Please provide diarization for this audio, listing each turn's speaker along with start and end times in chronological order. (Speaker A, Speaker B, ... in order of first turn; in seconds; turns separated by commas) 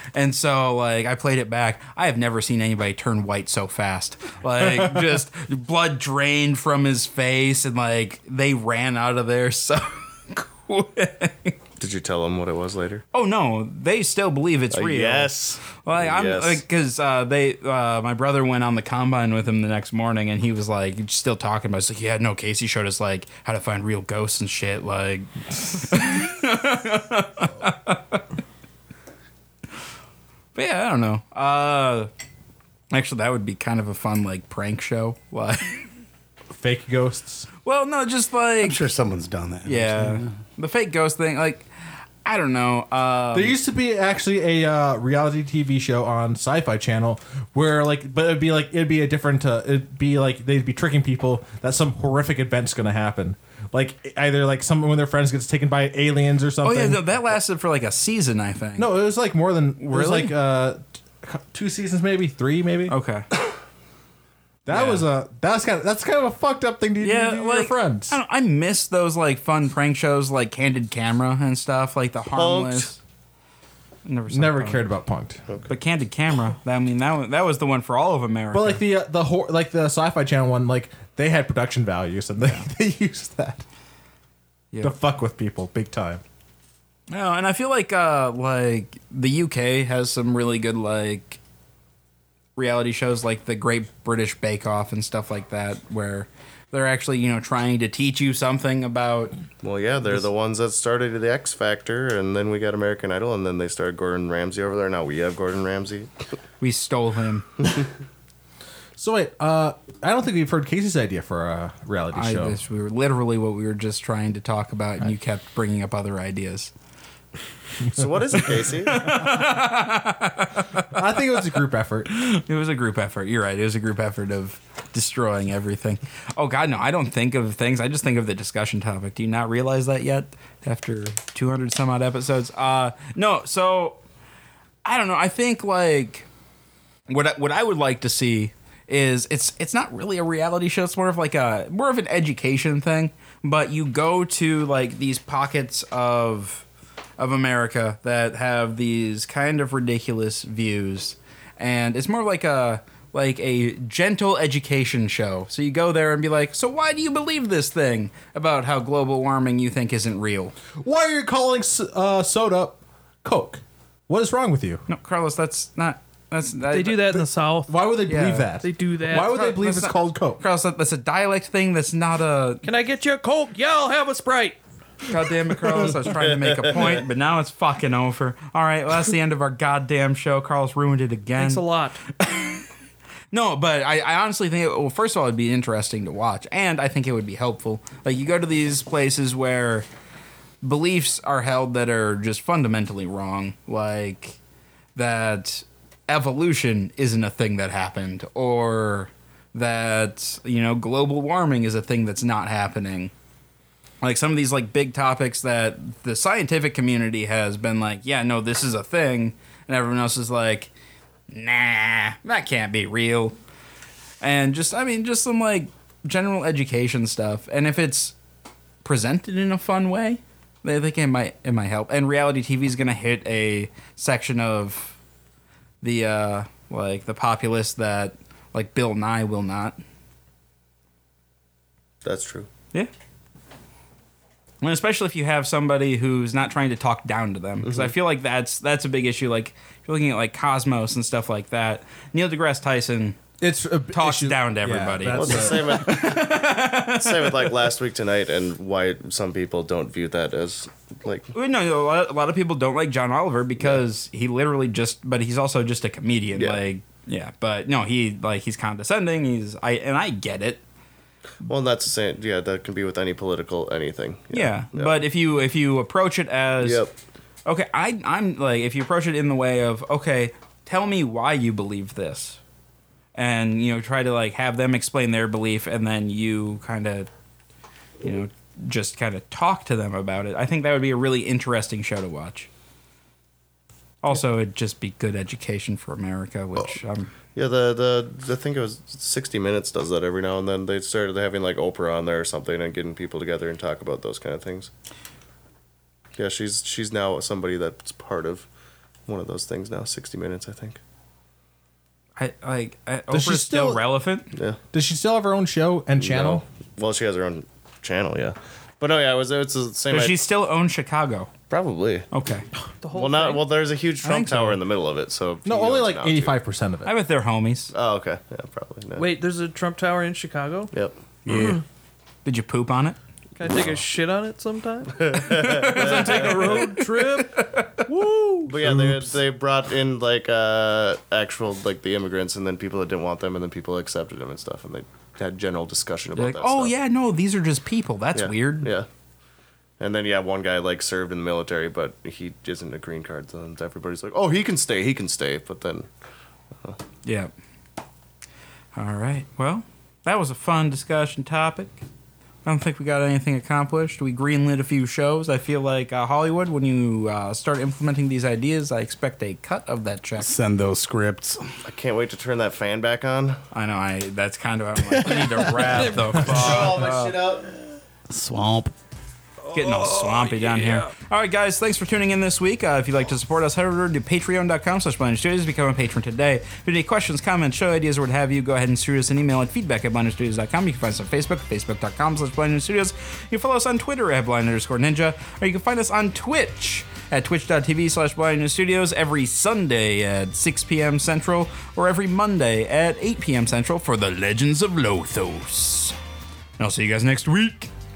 Speaker A: 0.1-11.6, Speaker B: 11.8-13.0, Speaker A: 13.1-28.2, Speaker B: 14.7-16.6, Speaker A: 30.5-32.1, Speaker A: 32.9-35.8, Speaker C: 36.5-37.5, Speaker A: 37.6-38.9, Speaker D: 38.6-40.3, Speaker A: 39.6-41.7, Speaker A: 42.2-43.5, Speaker C: 43.3-57.1, Speaker A: 56.6-58.9, Speaker C: 58.8-62.9, Speaker A: 59.8-60.3, Speaker A: 62.9-63.3, Speaker C: 64.7-68.2, Speaker A: 64.7-65.1, Speaker A: 67.0-73.0, Speaker B: 72.3-72.9, Speaker A: 74.0-74.9, Speaker C: 74.3-75.4, Speaker A: 75.7-78.8, Speaker C: 78.5-83.6, Speaker A: 82.4-82.7, Speaker A: 84.7-85.0, Speaker C: 84.8-86.2, Speaker A: 87.1-91.4, Speaker A: 92.5-99.3, Speaker B: 99.6-106.1, Speaker A: 106.6-107.5, Speaker C: 109.0-112.6, Speaker A: 112.1-116.7, Speaker B: 117.9-119.2, Speaker A: 118.6-121.5, Speaker C: 120.9-122.1, Speaker A: 122.1-134.0, Speaker A: 134.8-136.3, Speaker A: 137.1-146.7, Speaker A: 147.2-160.5, Speaker C: 160.8-164.8, Speaker A: 164.9-167.1, Speaker E: 166.7-167.8, Speaker C: 167.1-170.4, Speaker A: 168.1-168.5, Speaker E: 168.6-169.4, Speaker A: 169.1-172.6, Speaker E: 172.6-174.6, Speaker A: 175.0-181.6, Speaker B: 176.3-177.0, Speaker E: 181.4-182.0, Speaker A: 182.2-182.7, Speaker A: 183.3-189.9, Speaker A: 190.6-194.4, Speaker A: 194.9-203.1, Speaker A: 204.0-210.7, Speaker A: 211.3-213.3, Speaker A: 214.2-218.1, Speaker A: 218.8-224.9, Speaker A: 225.8-229.8, Speaker B: 232.0-232.5, Speaker A: 234.6-243.2, Speaker B: 237.6-237.9, Speaker C: 243.4-246.3, Speaker A: 243.9-247.5, Speaker B: 245.1-251.3, Speaker A: 251.3-260.6, Speaker B: 261.4-264.9, Speaker A: 264.3-266.8, Speaker B: 266.6-266.9, Speaker A: 267.4-272.4, Speaker A: 273.1-277.1, Speaker A: 278.0-282.5, Speaker A: 284.0-287.1, Speaker B: 287.3-294.7, Speaker B: 296.2-298.5, Speaker B: 299.1-300.8, Speaker A: 302.2-304.3, Speaker C: 303.1-303.8, Speaker C: 304.7-306.4, Speaker B: 305.9-310.2, Speaker A: 309.9-311.3, Speaker B: 311.5-312.1, Speaker A: 312.1-312.4, Speaker E: 312.8-313.5, Speaker B: 312.9-316.4, Speaker A: 314.0-314.6, Speaker C: 315.4-316.9, Speaker A: 316.8-317.7, Speaker B: 317.7-319.1, Speaker E: 318.9-320.7, Speaker D: 321.2-321.6, Speaker E: 321.3-321.6, Speaker A: 322.2-323.0, Speaker E: 323.4-328.2, Speaker B: 325.0-326.8, Speaker B: 328.4-336.7, Speaker A: 336.1-338.7, Speaker B: 338.1-338.9, Speaker B: 339.8-345.9, Speaker A: 347.0-347.3, Speaker A: 348.7-351.8, Speaker A: 352.4-360.3, Speaker D: 360.2-361.5, Speaker B: 361.6-363.4, Speaker A: 363.5-367.2, Speaker D: 364.9-366.9, Speaker E: 365.8-366.8, Speaker B: 366.2-367.5, Speaker D: 368.1-368.7, Speaker A: 369.5-396.0, Speaker E: 369.9-370.9, Speaker A: 396.6-397.7